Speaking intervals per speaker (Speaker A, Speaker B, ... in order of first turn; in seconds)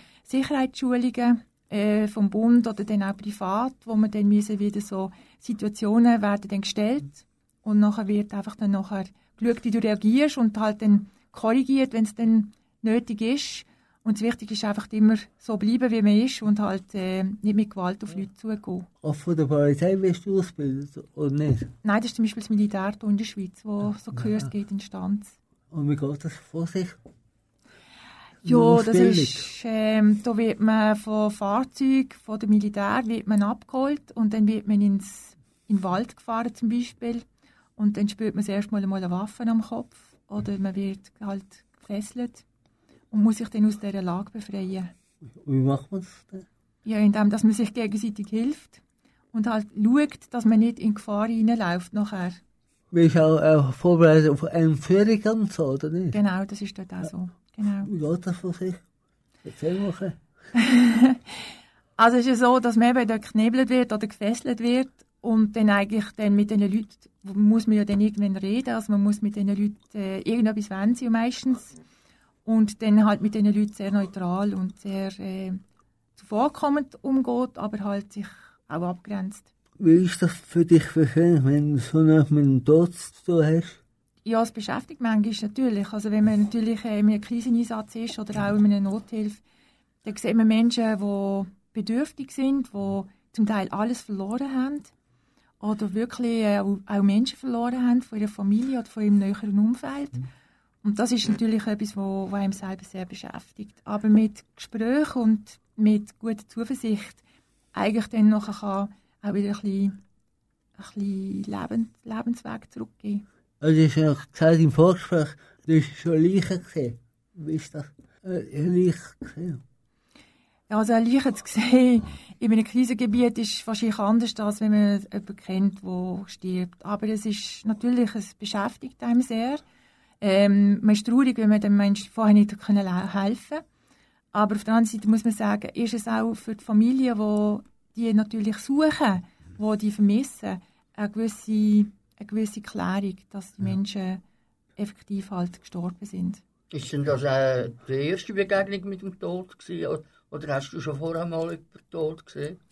Speaker A: 0.2-18.9, 21.8-25.4, 28.4-37.2, 37.8-42.4, 43.1-44.9, 46.9-48.8, 49.3-52.4, 56.1-57.9, 60.5-61.2, 62.0-71.8, 72.4-75.6, 76.2-79.5, 84.2-89.4, 90.0-94.9, 95.6-100.2, 100.8-107.2, 107.7-110.0, 110.8-113.2, 120.7-129.6, 130.2-133.6, 134.3-144.2, 144.8-146.4
Speaker B: 19.0-21.7, 25.7-27.0, 28.4-29.5, 45.3-46.5, 52.9-56.2, 57.8-58.8, 59.4-60.2, 79.8-83.8, 113.6-119.6
Speaker C: 146.7-152.6